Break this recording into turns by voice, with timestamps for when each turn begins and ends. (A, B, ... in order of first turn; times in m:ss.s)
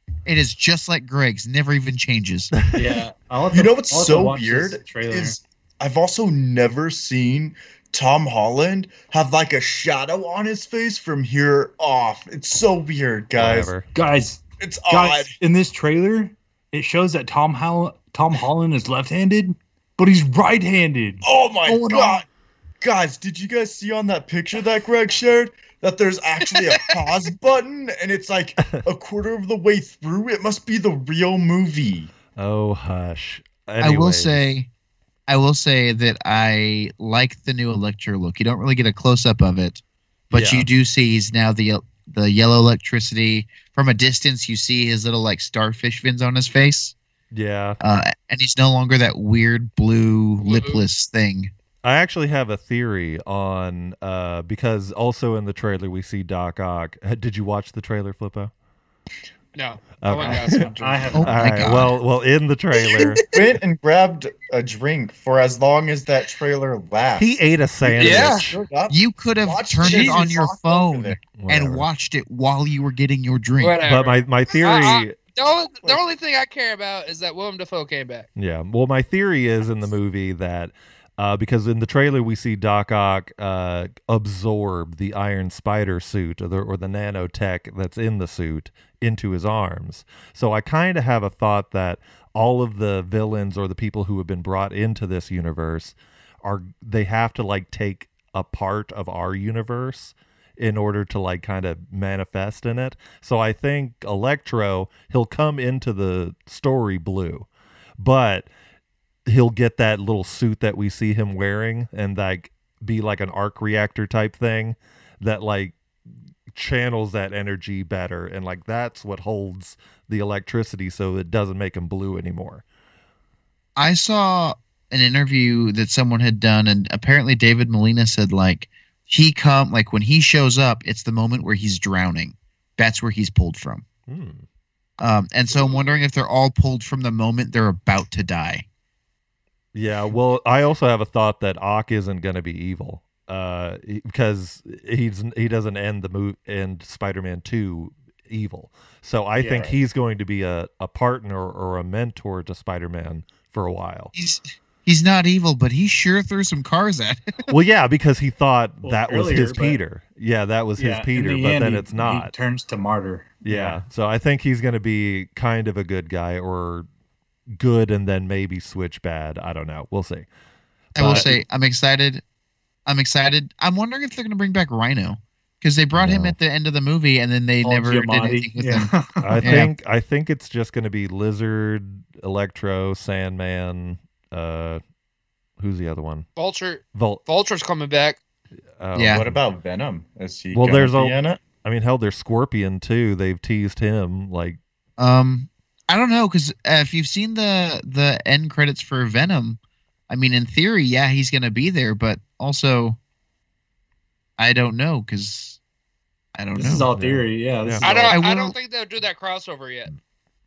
0:00.2-0:02.5 A
0:02.5-0:02.9 B
0:02.7-0:05.4 C
0:03.5-0:13.7 D
0:13.4-0:13.9 B
0:13.9-0:22.2 C
0:14.6-0:15.3 D
0:21.2-0:22.3 D
0:22.8-0:32.1 D
0:26.5-0:27.1 E
0:32.4-0:34.5 B
0:33.8-0:34.7 A
0:35.3-0:46.9 A
0:40.3-0:40.7 B
0:47.3-0:47.8 B
0:47.8-0:51.5 A
0:50.4-0:50.8 E
0:51.8-0:58.5 B
0:59.5-1:01.2 E
1:00.0-1:03.2 B
1:00.2-1:01.8 C
1:01.1-1:01.9 A
1:03.3-1:11.2 D
1:07.2-1:08.6 B
1:08.0-1:08.5 E
1:08.9-1:13.8 A
1:11.3-1:11.9 B
1:13.6-1:18.3 E
1:13.8-1:15.2 B
1:18.4-1:47.5 B
1:48.0-1:48.5 B
1:49.2-1:55.8 B
1:56.5-2:02.6 B
2:03.8-2:13.8 A
2:14.1-2:14.4 B
2:15.0-2:18.6 A
2:15.5-2:16.0 E
2:19.7-2:34.1 B
2:29.4-2:29.8 C
2:34.1-2:37.5 A
2:37.5-2:42.3 B
2:38.8-2:39.8 C
2:40.8-2:43.8 C
2:43.4-2:46.9 B
2:47.6-2:50.3 B
2:50.9-2:51.4 B
2:51.0-2:52.2 A
2:51.0-2:51.3 C
2:52.8-2:59.7 A
2:55.9-2:56.4 B
2:57.6-2:59.7 C
2:59.2-3:04.8 B
3:05.6-3:06.2 B
3:06.4-3:08.2 E
3:06.9-3:07.2 B
3:08.8-3:09.4 B
3:08.9-3:09.2 A
3:09.1-3:11.4 D
3:10.5-3:14.6 B
3:15.0-3:23.0 A
3:24.4-3:25.6 A
3:26.4-3:26.9 A
3:26.5-3:28.2 C
3:26.9-3:27.9 B
3:27.8-3:29.9 E
3:28.1-3:28.6 A